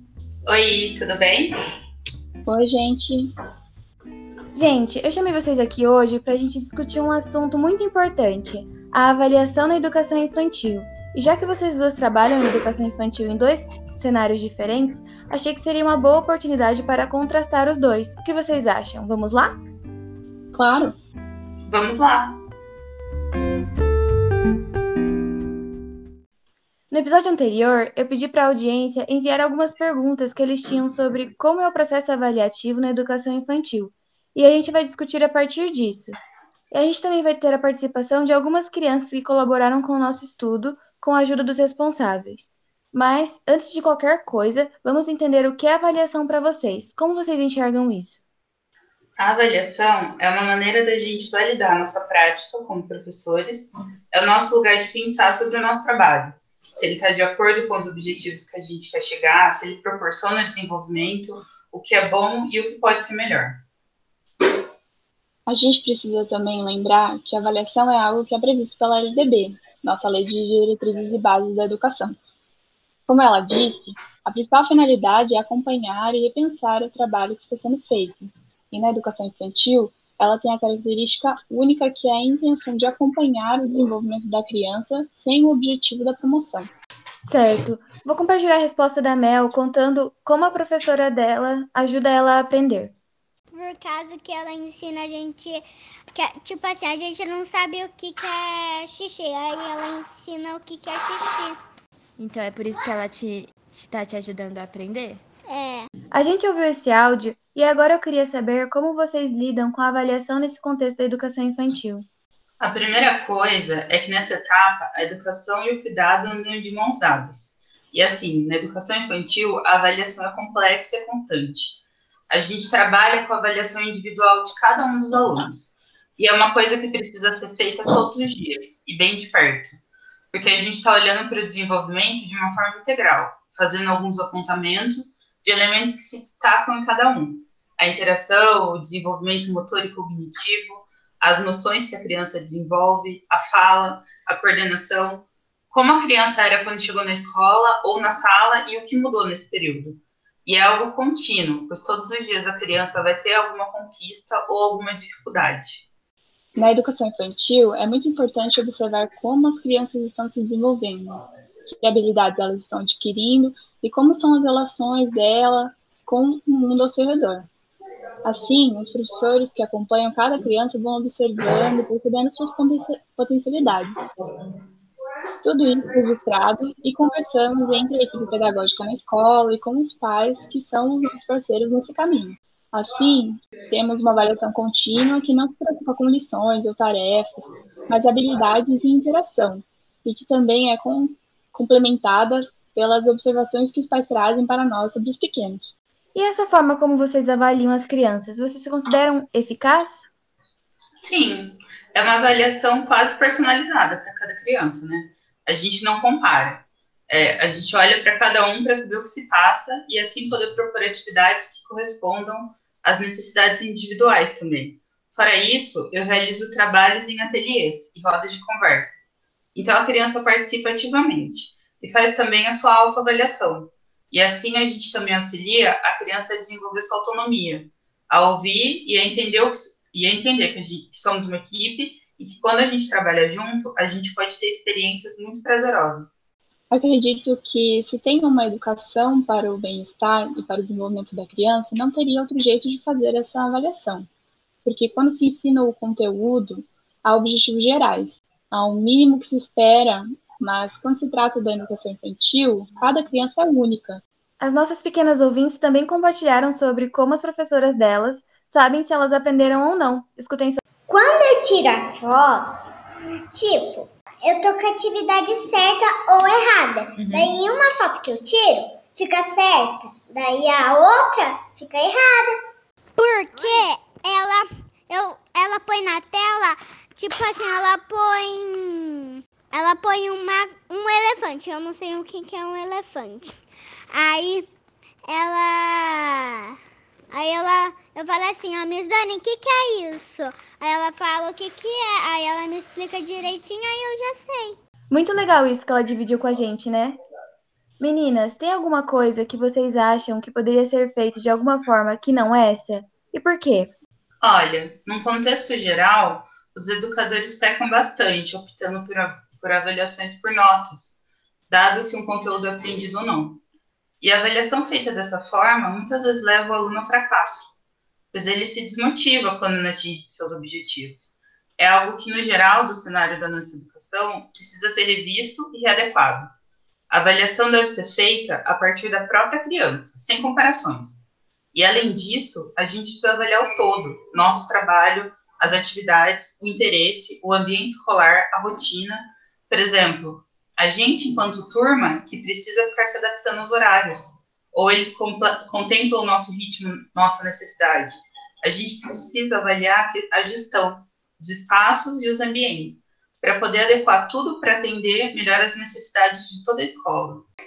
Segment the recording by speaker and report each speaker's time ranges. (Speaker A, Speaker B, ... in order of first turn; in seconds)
Speaker A: 0.5-1.5, 21.6-22.4, 49.2-63.6, 112.6-129.8, 130.3-155.9, 201.0-219.0, 219.5-236.2, 304.2-313.4, 314.0-317.5, 318.1-326.3, 326.9-357.3
Speaker B: 2.5-3.3, 20.5-20.9, 65.5-72.2, 73.1-86.7, 156.6-167.5, 168.2-174.0, 175.4-195.7, 236.7-244.1, 244.7-254.0
Speaker C: 4.5-19.6, 26.9-36.2, 36.7-48.2, 87.2-92.9, 106.1-112.1, 196.2-200.1, 254.4-260.6, 294.9-297.0, 297.8-303.7
Speaker D: 93.5-101.6, 105.5-105.9, 273.0-283.4, 283.9-284.5, 285.1-286.5, 287.1-294.6
Speaker E: 102.2-105.2
Speaker F: 260.9-262.5, 263.3-272.4